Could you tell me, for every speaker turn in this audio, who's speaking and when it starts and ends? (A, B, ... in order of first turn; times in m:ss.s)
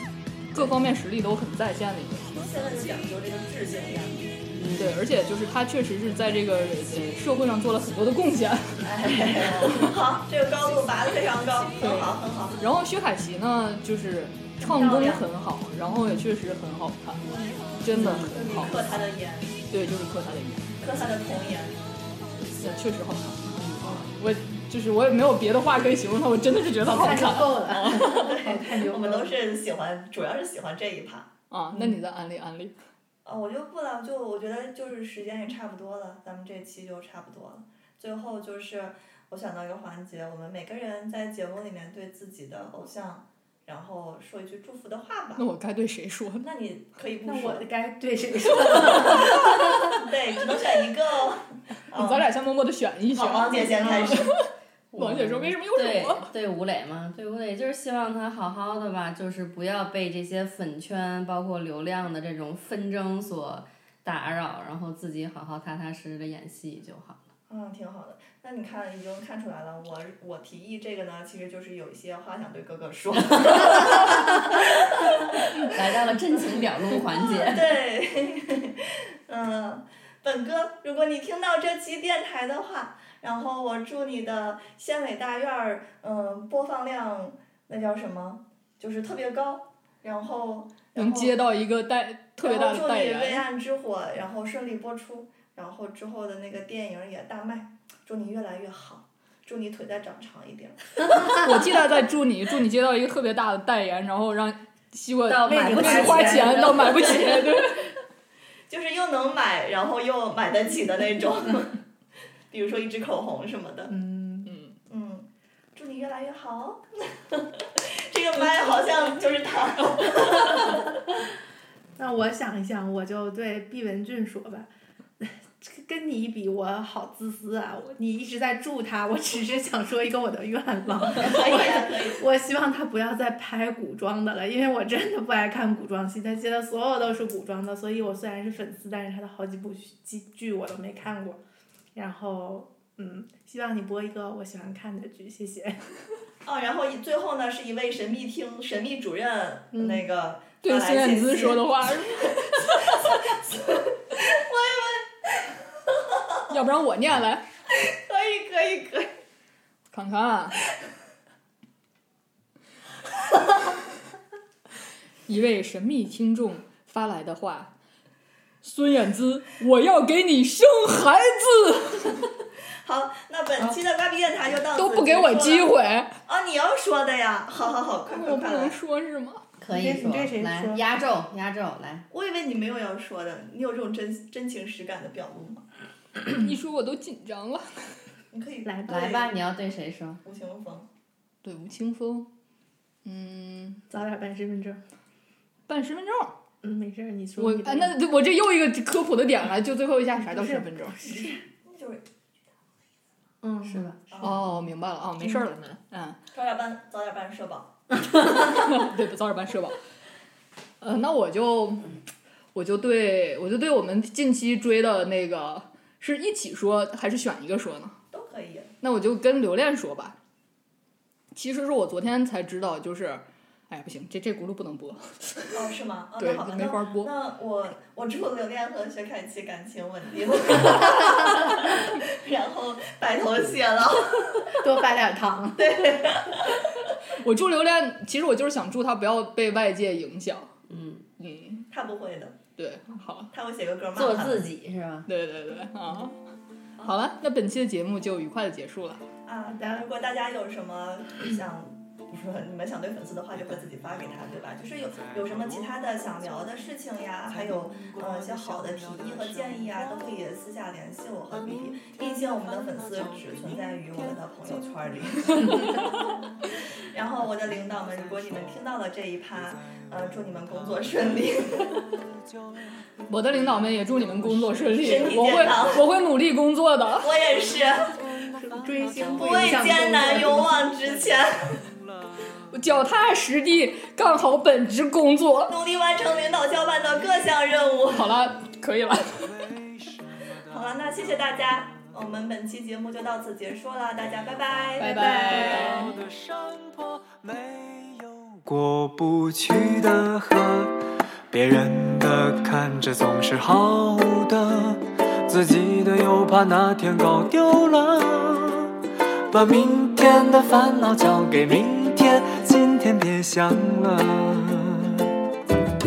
0:00.5-0:02.4 A
0:02.3-0:04.3 B
0:04.6-0:04.9 C
0:04.6-0:09.3 A
0:08.8-0:12.6 B
0:11.8-0:17.2 A
0:14.6-0:15.2 B
0:17.2-0:19.6 B
0:17.8-0:18.9 A
0:17.9-0:18.3 D
0:17.9-0:18.3 C
0:19.7-0:20.7 A
0:20.8-0:21.8 B
0:22.6-0:28.4 A
0:23.8-0:24.1 B
0:26.8-0:29.4 D
0:28.1-0:31.3 B
0:31.5-0:32.8 A
0:33.2-0:45.4 B
0:45.4-0:46.5 A
0:46.4-0:47.7 B
0:47.2-0:50.0 D
0:48.8-0:52.3 B
0:51.9-0:56.3 A
0:53.1-0:54.3 B
0:54.9-1:07.2 C
1:07.5-1:15.2 B
1:13.8-1:14.5 C
1:15.3-1:17.8 C
1:17.1-1:31.4 B
1:31.0-1:33.4 A
1:32.4-1:41.5 B
1:41.2-1:47.9 A
1:45.3-1:47.6 C
1:45.4-1:47.0 D
1:48.7-1:51.8 B
1:52.5-1:53.9 B
1:53.9-1:54.6 D
1:54.4-1:54.7 A
1:54.9-2:01.0 B
2:02.0-2:21.4 D
2:11.1-2:12.3 B
2:21.9-2:25.9 D
2:26.4-2:31.8 B
2:29.7-2:30.0 D
2:30.6-2:33.2 A
2:34.1-2:35.1 B
2:36.5-2:37.4 A
2:37.8-2:39.1 B
2:39.9-2:40.6 A
2:45.3-2:47.7 A
2:48.6-2:52.2 A
2:52.8-2:55.7 B
2:54.8-2:56.1 A
2:56.2-2:58.8 B
2:58.1-2:59.4 A
2:59.6-3:02.0 C
2:59.7-3:00.8 D
3:02.1-3:05.6 B
3:06.3-3:07.9 A
3:08.3-3:09.3 B
3:08.6-3:09.1 D
3:08.8-3:10.2 C
3:10.2-3:10.9 B
3:11.4-3:12.3 A
3:13.0-3:13.8 A
3:13.9-3:14.8 D
3:15.7-3:16.4 A
3:16.6-3:18.0 D
3:17.4-3:21.0 A
3:20.2-3:21.4 D
3:21.0-3:22.0 B
3:23.4-3:24.3 D
3:23.6-3:24.0 C
3:24.1-3:24.4 B
3:24.2-3:26.2 A
3:26.3-3:27.7 B
3:28.1-3:29.8 A
3:30.8-3:31.9 A
3:32.5-3:38.0 A
3:38.1-3:38.7 B
3:38.8-3:40.2 A
3:41.3-3:45.7 A
3:45.5-3:54.6 B
3:46.2-3:47.1 A
3:54.6-3:56.0 D
3:55.6-3:56.7 B
3:57.1-4:00.5 A
4:00.7-4:01.0 C
4:01.2-4:01.7 A
4:01.7-4:02.4 B
4:02.6-4:03.3 A
4:03.3-4:04.5 B
4:03.9-4:05.1 C
4:05.1-4:06.2 A
4:06.8-4:07.0 B
4:06.8-4:09.0 A
4:09.2-4:25.7 B
4:26.9-4:31.8 B
4:33.1-4:37.1 A
4:34.8-4:35.9 B
4:37.0-4:38.0 B
4:38.4-4:40.6 D
4:39.1-4:41.6 B
4:42.5-4:45.5 A
4:45.5-4:48.1 B
4:47.9-4:49.3 A
4:50.5-4:55.9 B
4:54.8-4:55.9 A
4:55.6-5:08.7 E
5:09.3-5:15.1 E